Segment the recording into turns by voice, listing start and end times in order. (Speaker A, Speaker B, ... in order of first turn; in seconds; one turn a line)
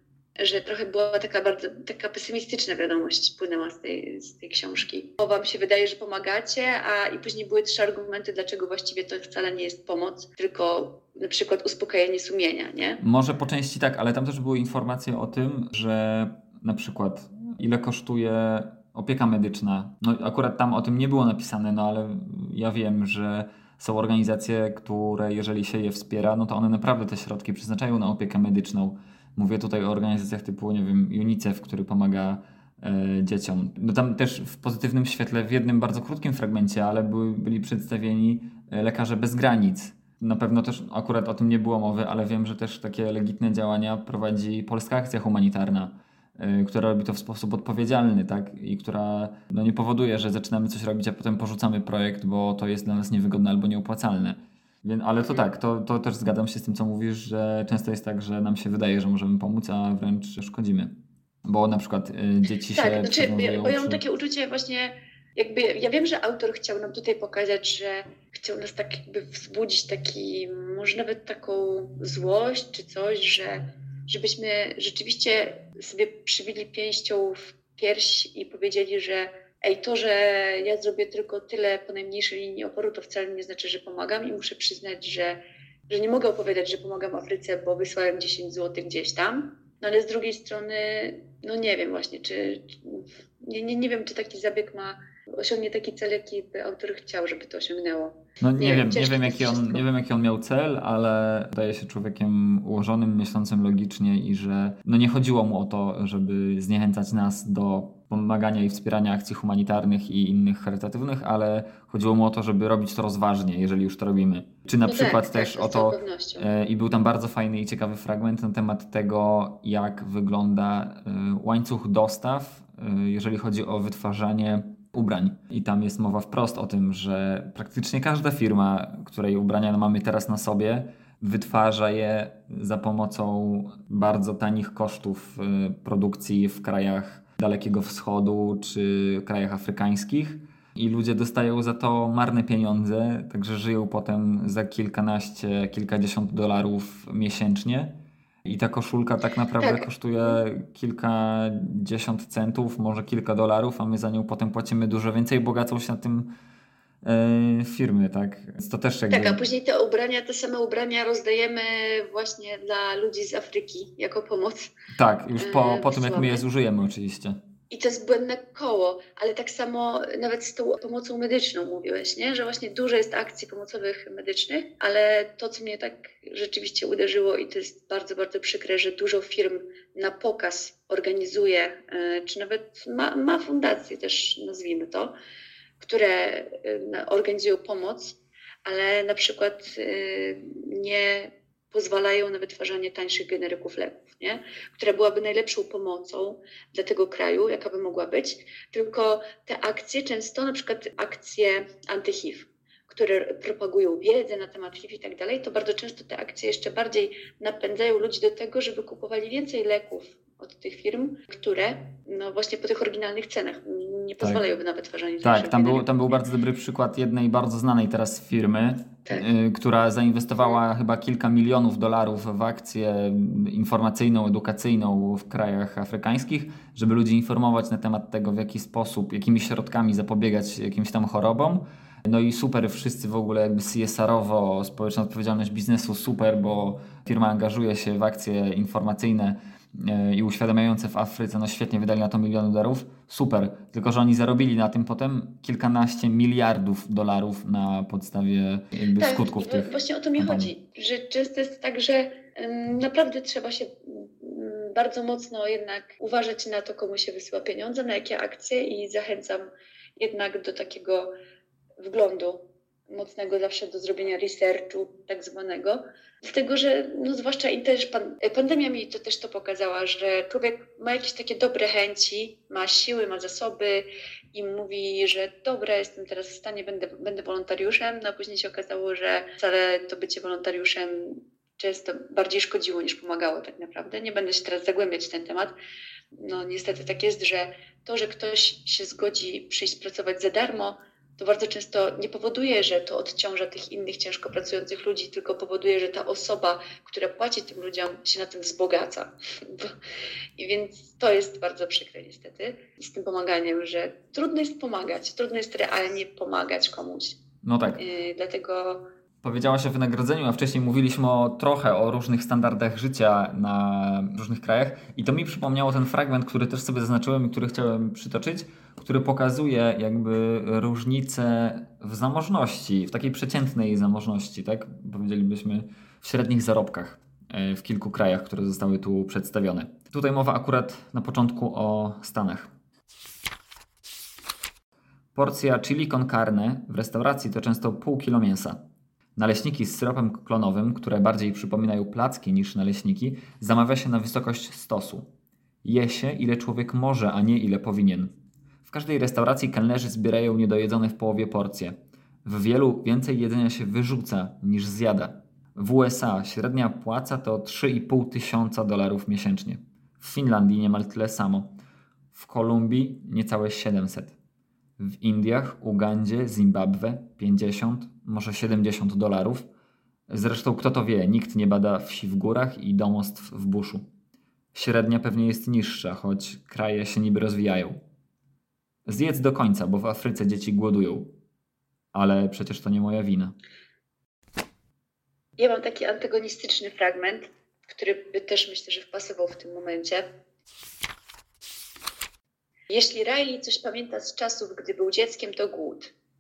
Speaker A: 0.4-13.0
Speaker B: 13.0-60.9
Speaker B: 61.5-64.0
Speaker A: 62.7-99.8
Speaker B: 98.4-156.3
Speaker A: 114.8-116.5
Speaker A: 149.6-150.4
Speaker B: 157.0-159.4
Speaker A: 159.1-164.7
Speaker B: 164.9-167.4
Speaker A: 165.4-166.4
Speaker A: 167.7-185.1
Speaker A: 185.8-216.2
Speaker B: 215.2-250.5
Speaker A: 249.0-261.1
Speaker A: 261.8-285.5
Speaker A: 286.2-299.8
Speaker A: 300.4-307.2
Speaker B: 307.4-307.8
Speaker A: 307.8-308.8
Speaker B: 309.2-332.5
Speaker B: 335.1-338.6
Speaker B: 339.2-345.1
Speaker B: 345.6-348.1
Speaker B: 348.7-361.6
Speaker B: 362.1-364.1
Speaker B: 364.8-369.5
Speaker B: 370.1-373.9
Speaker B: 374.5-377.8
Speaker B: 378.9-381.1
Speaker B: 381.9-383.4
Speaker A: 385.4-390.1
Speaker A: 392.7-395.9